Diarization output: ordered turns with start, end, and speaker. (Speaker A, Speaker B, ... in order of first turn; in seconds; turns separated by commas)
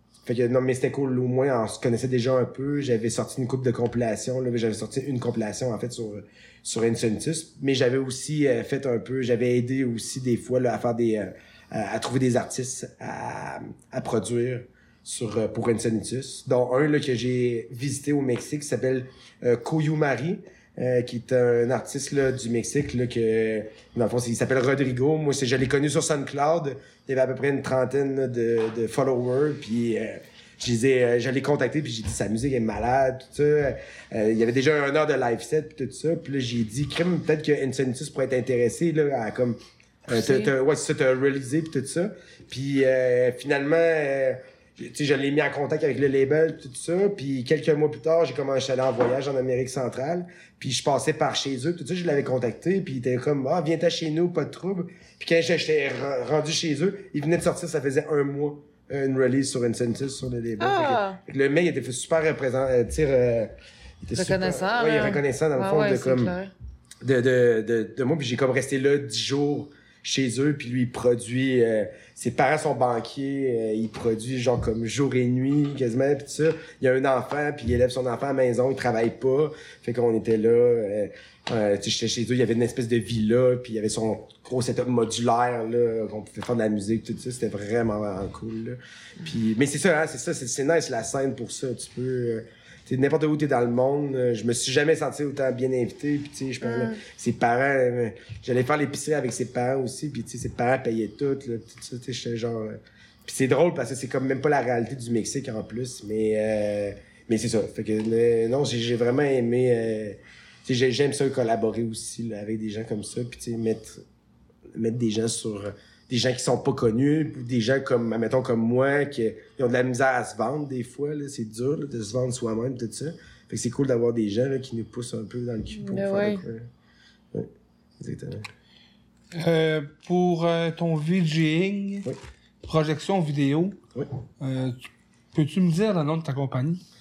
Speaker A: 0.2-66.3, Speaker B: 40.1-40.5, Speaker B: 60.6-61.2, Speaker B: 64.1-66.5, Speaker A: 67.0-114.0, Speaker B: 96.6-97.0, Speaker A: 114.7-126.7, Speaker B: 125.7-126.4, Speaker A: 127.3-128.5, Speaker C: 129.3-132.1, Speaker C: 132.6-133.8, Speaker C: 134.4-134.8, Speaker C: 135.3-136.8